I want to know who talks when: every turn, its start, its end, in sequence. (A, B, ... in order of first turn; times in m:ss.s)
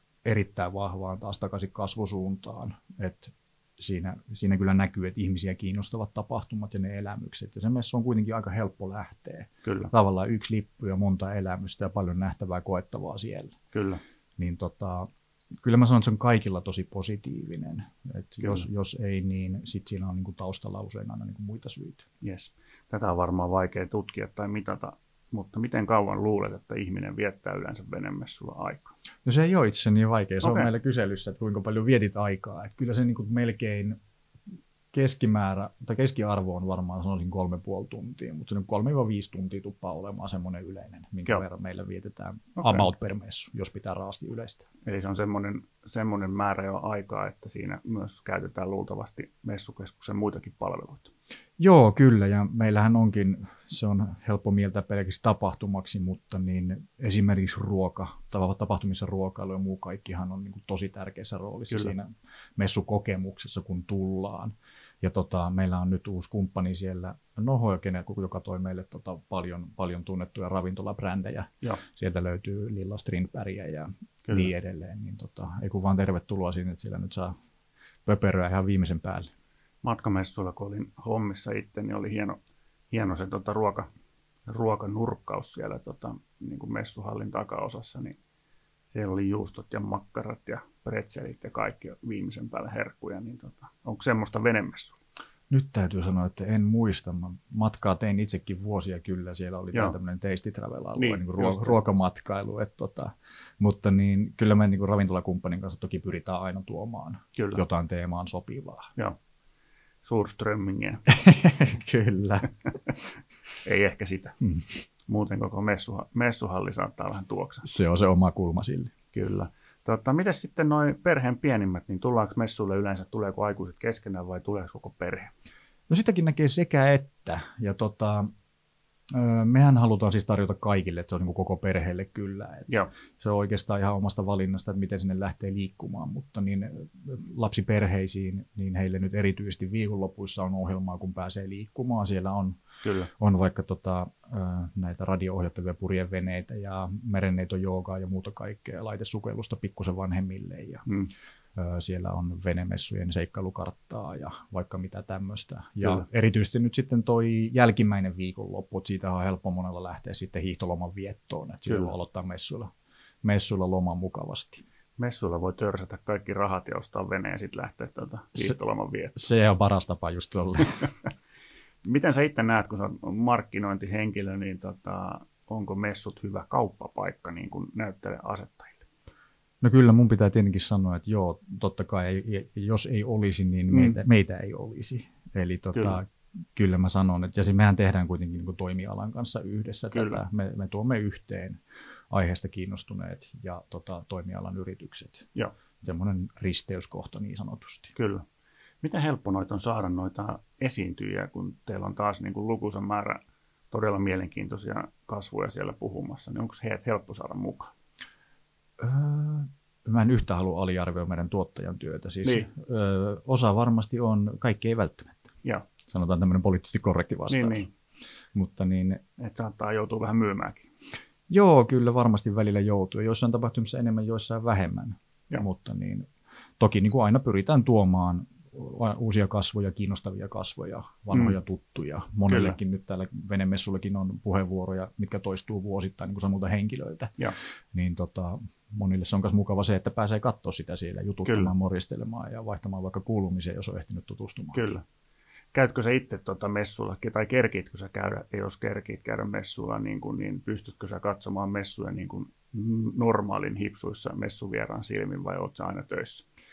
0:00.2-0:13.6 A
0:09.6-0:09.9 B
0:13.7-0:14.0 B
0:14.4-0:15.1 A
0:15.6-0:22.1 A
0:22.2-0:28.9 B
0:29.2-0:34.0 A
0:30.4-0:30.7 B
0:34.9-0:44.7 A
0:42.6-0:42.9 B
0:44.8-0:51.1 B
0:51.6-1:17.4 A
1:18.0-1:19.3 A
1:19.8-1:22.4 B
1:22.9-1:23.9 B
1:24.5-1:28.2 B
1:28.9-1:35.0 B
1:35.5-1:48.9 A
1:41.0-1:41.8 B
1:47.4-1:47.6 B
1:50.0-1:51.0 B
1:51.1-1:52.5 A
1:53.6-1:54.4 B
1:54.4-1:54.7 A
1:55.0-1:57.7 B
1:57.6-1:58.9 A
1:59.1-2:05.3 B
2:05.9-2:08.3 A
2:09.1-2:22.6 A
2:22.8-2:23.1 B
2:23.1-2:30.8 A
2:31.5-2:42.7 A
2:41.7-2:41.9 B
2:43.2-2:44.6 A
2:45.0-2:49.2 B
2:49.2-2:50.9 A
2:51.8-2:58.8 B
2:59.6-3:15.3 A
3:03.7-3:04.0 B
3:05.7-3:06.0 B
3:09.9-3:10.2 B
3:15.8-3:17.9 A
3:17.9-3:18.2 B
3:18.8-3:27.7 B
3:28.8-3:35.3 A
3:32.2-3:32.5 B
3:35.8-3:37.6 A
3:37.3-3:37.7 B
3:38.3-3:39.0 A
3:39.2-3:40.7 B
3:41.3-3:46.1 A
3:46.6-3:57.2 A
3:51.1-3:51.4 B
3:52.3-3:52.6 B
3:57.7-4:04.7 A
4:01.2-4:01.5 B
4:04.5-4:04.8 B
4:05.5-4:16.2 B